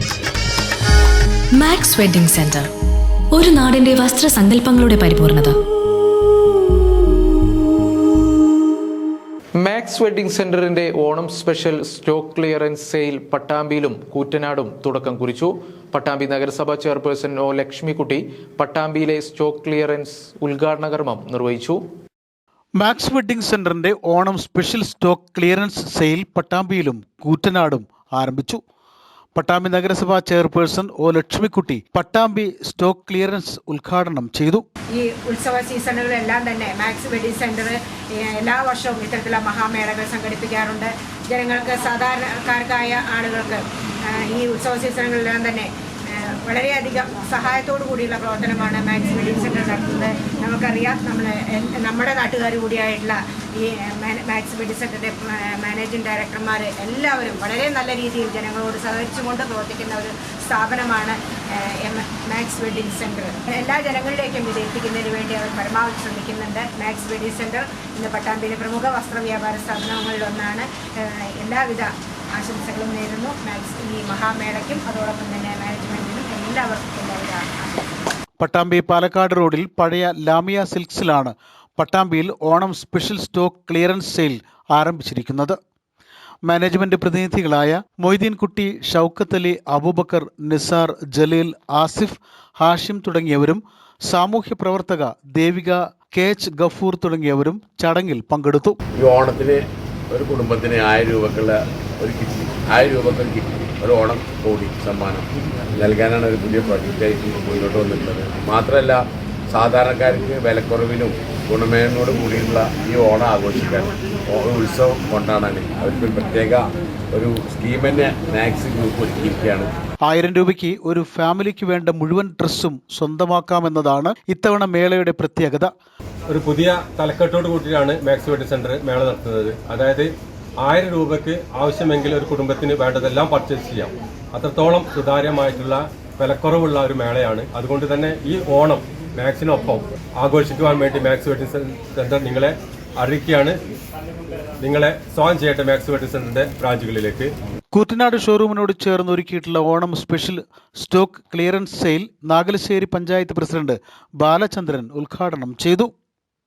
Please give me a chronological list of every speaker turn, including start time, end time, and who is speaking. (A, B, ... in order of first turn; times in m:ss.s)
0:01.6-0:02.7 A
0:03.3-0:05.6 A
0:09.6-0:21.8 B
0:22.8-0:28.6 C
0:29.4-0:34.6 C
0:34.9-1:18.0 D
1:18.4-1:25.6 C
1:26.4-1:38.8 C
1:39.0-1:49.0 E
1:49.5-1:59.7 E
2:00.1-2:05.7 C
2:06.3-2:10.1 F
2:10.6-2:23.6 F
2:24.6-2:27.3 F
2:27.7-2:35.9 C